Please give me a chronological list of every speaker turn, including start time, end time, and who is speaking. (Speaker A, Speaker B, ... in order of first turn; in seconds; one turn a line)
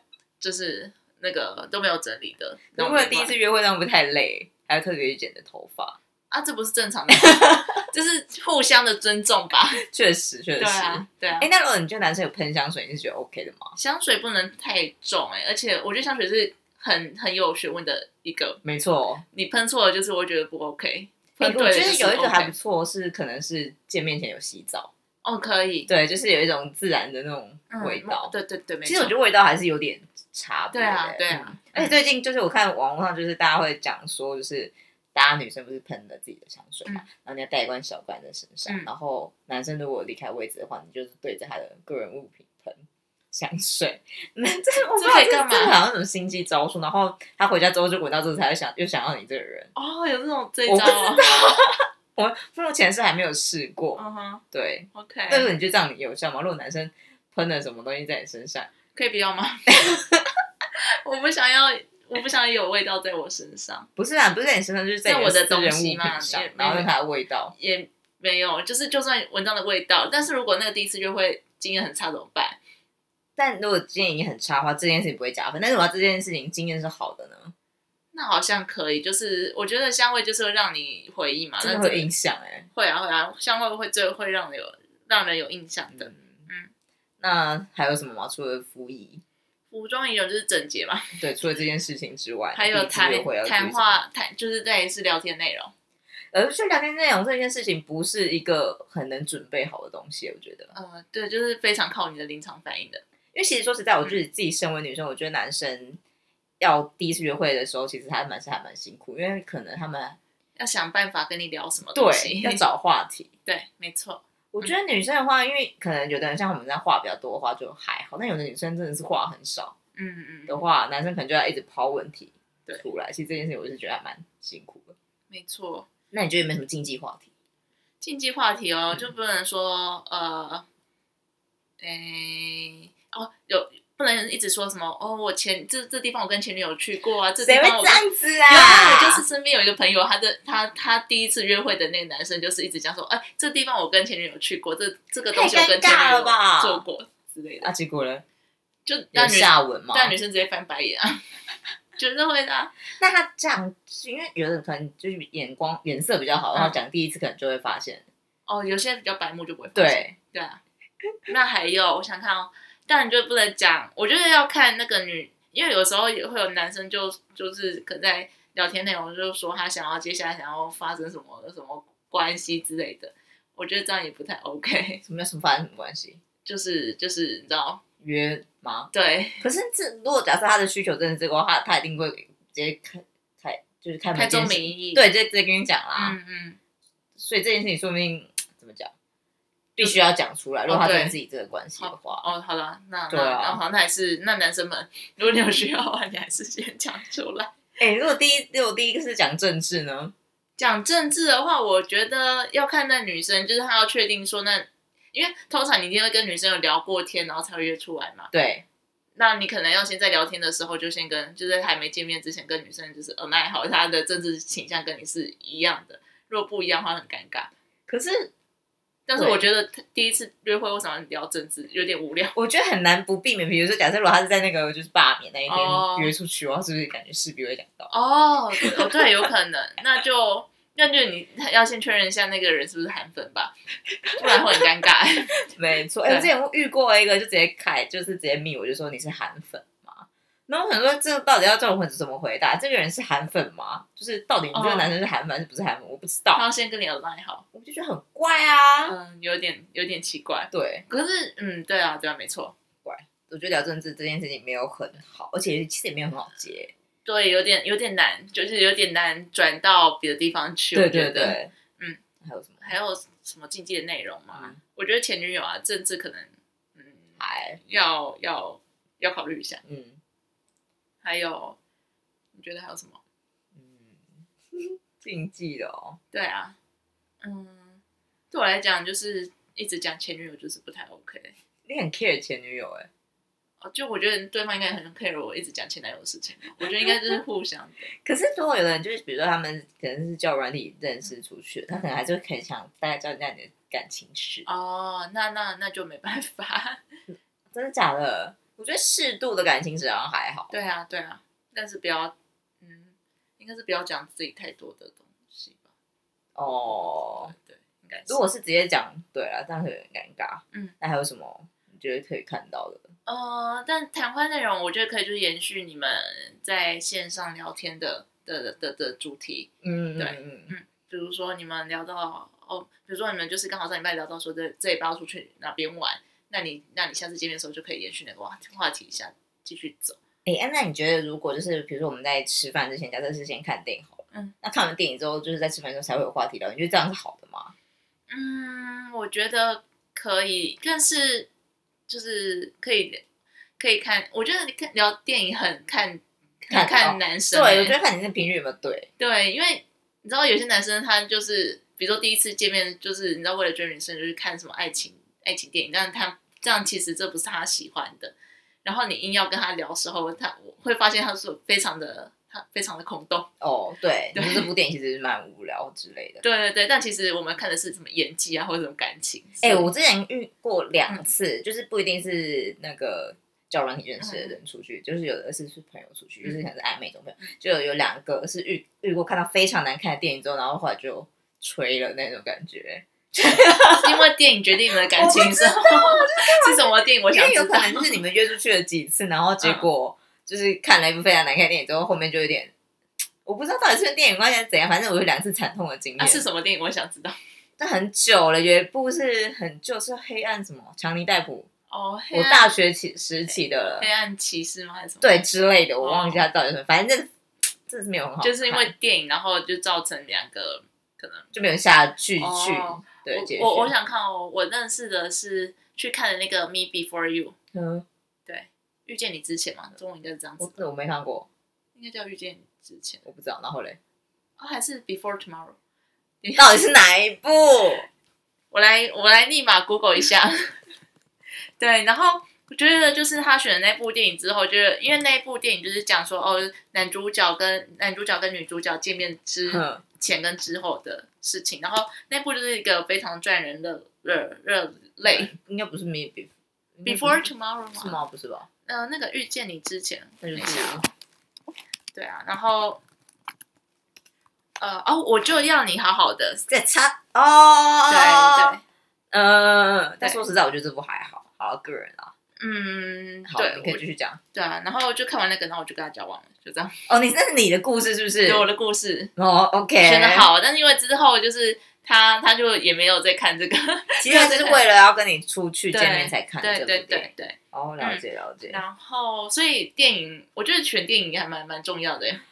Speaker A: 0.4-3.3
Speaker B: 2.7-6.0
Speaker A: 6.3-9.8
Speaker B: 7.1-7.7
Speaker B: 9.9-13.7
Speaker A: 10.6-11.5
Speaker A: 13.8-18.6
Speaker B: 18.6-19.2
Speaker A: 19.3-22.5
Speaker B: 21.4-24.9
Speaker A: 25.2-25.9
Speaker B: 25.9-28.3
Speaker A: 27.7-29.1
Speaker B: 28.8-49.7
Speaker A: 30.7-32.0
Speaker A: 45.0-45.8
Speaker A: 49.7-51.4
Speaker B: 50.7-58.7
Speaker A: 53.9-54.4
Speaker A: 54.9-55.5
Speaker A: 58.9-59.8
Speaker B: 59.7-60.2
Speaker A: 61.0-63.9
Speaker B: 64.0-67.5
Speaker A: 65.0-66.9
Speaker A: 67.5-72.6
Speaker B: 73.3-77.5
Speaker A: 78.1-82.1
Speaker B: 81.6-82.7
Speaker A: 82.7-86.7
Speaker B: 85.9-86.4
Speaker B: 87.2-89.2
Speaker A: 89.7-91.2
Speaker B: 91.2-94.0
Speaker A: 92.5-95.7
Speaker B: 96.3-100.7
Speaker A: 100.7-103.0
Speaker B: 103.3-106.0
Speaker B: 106.6-110.2
Speaker A: 110.6-112.6
Speaker B: 111.9-113.3
Speaker A: 113.5-114.7
Speaker B: 114.5-119.7
Speaker A: 120.0-120.6
Speaker B: 120.5-124.9
Speaker A: 125.3-125.9
Speaker B: 126.1-127.3
Speaker A: 128.0-130.6
Speaker A: 131.8-147.7
Speaker B: 137.4-139.2
Speaker B: 145.3-146.8
Speaker B: 147.6-148.2
Speaker A: 148.8-151.2
Speaker B: 149.1-150.2
Speaker A: 152.0-152.7
Speaker B: 153.0-158.1
Speaker A: 156.5-156.8
Speaker A: 158.5-160.6
Speaker B: 159.7-160.2
Speaker A: 161.3-175.0
Speaker B: 175.0-176.2
Speaker A: 176.4-177.8
Speaker B: 178.0-186.2
Speaker A: 178.9-179.4
Speaker A: 184.1-185.1
Speaker A: 185.9-186.6
Speaker B: 187.2-188.9
Speaker B: 189.8-192.2
Speaker A: 190.7-191.2
Speaker A: 191.8-197.5
Speaker B: 193.1-193.6
Speaker B: 197.8-200.1
Speaker A: 200.6-208.3
Speaker B: 208.3-208.6
Speaker A: 209.2-217.5
Speaker B: 217.9-218.3
Speaker A: 219.1-222.3
Speaker B: 219.1-219.5
Speaker B: 222.3-227.9
Speaker A: 225.5-226.1
Speaker A: 227.9-233.6
Speaker B: 234.1-234.7
Speaker A: 234.2-235.4
Speaker B: 235.5-246.4
Speaker A: 236.0-236.3
Speaker A: 244.5-244.9
Speaker A: 246.3-247.4
Speaker B: 247.5-249.0
Speaker A: 248.8-252.5
Speaker B: 250.5-250.8
Speaker B: 252.8-256.7
Speaker A: 257.0-262.0
Speaker B: 260.7-261.5
Speaker B: 262.2-262.7
Speaker A: 262.6-267.1
Speaker B: 264.3-264.6
Speaker B: 267.2-267.6
Speaker A: 267.6-269.6
Speaker B: 269.6-270.0
Speaker A: 271.0-271.6
Speaker A: 272.3-273.0
Speaker B: 273.5-276.0
Speaker A: 276.1-276.5
Speaker A: 277.2-277.8
Speaker A: 278.3-281.3
Speaker B: 281.6-282.9
Speaker A: 283.6-287.9
Speaker B: 286.6-287.2
Speaker B: 288.0-294.5
Speaker A: 294.4-296.8
Speaker B: 297.5-300.5
Speaker A: 300.5-305.7
Speaker B: 306.4-307.3
Speaker A: 306.5-308.2
Speaker B: 308.1-312.9
Speaker A: 313.1-330.0
Speaker B: 319.6-320.5
Speaker B: 330.2-337.5
Speaker A: 338.1-341.3
Speaker A: 341.9-343.0
Speaker A: 343.6-347.8
Speaker B: 346.5-348.9
Speaker A: 349.0-363.3
Speaker B: 363.4-366.2
Speaker A: 364.1-364.5
Speaker A: 366.2-369.7
Speaker B: 369.4-384.0
Speaker A: 374.0-374.4
Speaker A: 383.8-388.0
Speaker B: 384.9-392.5
Speaker A: 389.4-389.7
Speaker B: 393.2-396.2
Speaker A: 396.0-397.2
Speaker B: 397.6-401.5
Speaker A: 401.7-402.5
Speaker B: 402.1-403.9
Speaker A: 403.2-405.2
Speaker B: 405.0-407.1
Speaker A: 405.8-406.2
Speaker B: 407.7-408.7
Speaker A: 408.2-411.3
Speaker B: 411.3-413.7
Speaker A: 412.2-417.3
Speaker B: 417.5-417.8
Speaker A: 418.3-420.6
Speaker B: 420.4-421.3
Speaker A: 421.8-423.0
Speaker B: 423.0-423.8
Speaker A: 424.4-425.6
Speaker A: 426.2-426.6
Speaker B: 426.4-427.9
Speaker A: 428.5-430.5
Speaker A: 431.6-445.3
Speaker B: 439.4-439.8
Speaker B: 445.0-448.5
Speaker A: 446.8-448.0
Speaker A: 448.6-450.9
Speaker B: 450.2-450.8
Speaker A: 451.9-452.8
Speaker A: 454.6-456.4
Speaker B: 456.5-458.6
Speaker A: 457.9-458.6
Speaker B: 459.1-462.1
Speaker A: 462.4-463.8
Speaker B: 463.2-464.2
Speaker A: 464.3-466.7
Speaker B: 466.9-468.5
Speaker A: 468.2-469.1
Speaker B: 469.1-470.3
Speaker A: 469.8-474.6
Speaker B: 474.0-478.6
Speaker A: 475.7-482.2